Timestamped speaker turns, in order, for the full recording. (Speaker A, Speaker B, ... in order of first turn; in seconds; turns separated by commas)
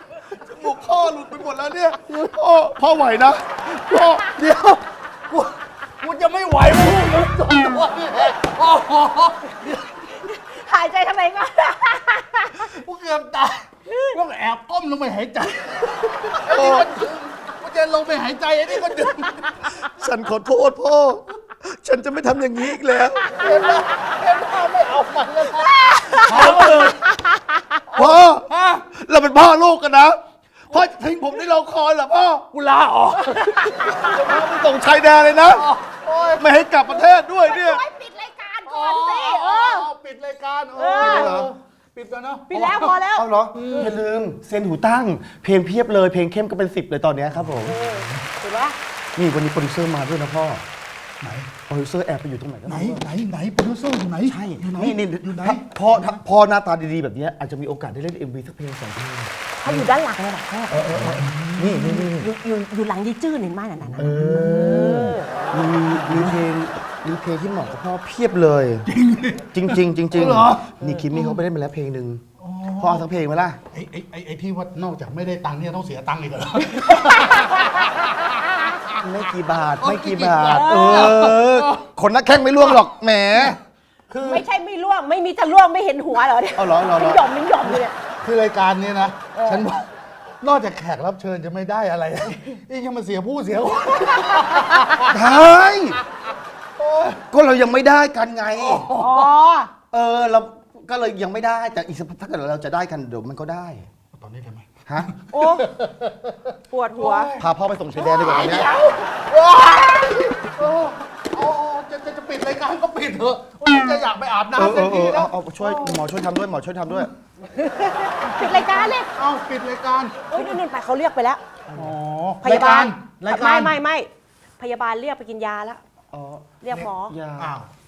Speaker A: 0.4-4.3, Speaker B: 2.1-2.4, Speaker B: 3.8-9.9, Speaker C: 10.1-12.7, Speaker B: 12.6-19.7, Speaker C: 13.9-14.1, Speaker A: 16.4-17.0, Speaker A: 19.8-23.5, Speaker B: 23.3-27.0, Speaker C: 25.6-27.8, Speaker A: 26.1-27.0, Speaker A: 27.9-32.5, Speaker B: 27.9-28.8, Speaker B: 32.5-34.7, Speaker C: 33.3-34.3, Speaker A: 33.9-35.7, Speaker B: 35.4-36.4, Speaker A: 36.3-37.8, Speaker C: 37.3-39.9, Speaker B: 38.7-42.9, Speaker C: 40.7-41.3, Speaker A: 40.9-41.5, Speaker C: 42.5-43.9, Speaker A: 42.5-47.8, Speaker B: 43.5-43.9, Speaker B: 47.4-48.2, Speaker C: 47.6-48.8, Speaker A: 49.1-50.6, Speaker B: 51.2-51.5, Speaker A: 51.7-53.0, Speaker B: 52.7-56.2, Speaker A: 54.2-59.8, Speaker C: 59.6-60.8, Speaker A: 60.7-62.3, Speaker B: 60.7-61.9, Speaker C: 61.8-65.5, Speaker A: 64.0-68.9, Speaker B: 64.1-64.9, Speaker B: 65.5-66.4, Speaker B: 68.9-71.4, Speaker A: 69.5-73.6, Speaker B: 72.4-73.0, Speaker B: 73.7-78.3, Speaker C: 76.9-78.8, Speaker A: 78.9-83.6, Speaker B: 79.8-81.8, Speaker C: 80.5-81.2, Speaker B: 84.1-84.4, Speaker C: 84.2-87.9, Speaker A: 86.5-87.2, Speaker B: 88.2-89.9, Speaker C: 89.3-89.7, Speaker B: 90.4-95.1, Speaker C: 94.4-95.0, Speaker A: 95.1-96.0, Speaker B: 96.8-97.2, Speaker A: 97.2-98.9, Speaker B: 98.6-99.3, Speaker C: 98.9-99.7, Speaker A: 99.9-103.9, Speaker B: 104.1-107.4, Speaker A: 104.9-105.1, Speaker C: 105.3-105.7, Speaker C: 106.7-107.4, Speaker A: 107.3-108.7, Speaker B: 108.0-115.9, Speaker C: 108.2-109.0, Speaker A: 114.5-117.1, Speaker C: 117.5-119.1, Speaker B: 118.2-120.5, Speaker C: 120.3-121.4, Speaker A: 121.7-122.0, Speaker B: 121.7-123.8, Speaker C: 122.4-125.8, Speaker A: 126.1-127.5, Speaker C: 126.6-127.1, Speaker B: 127.4-127.7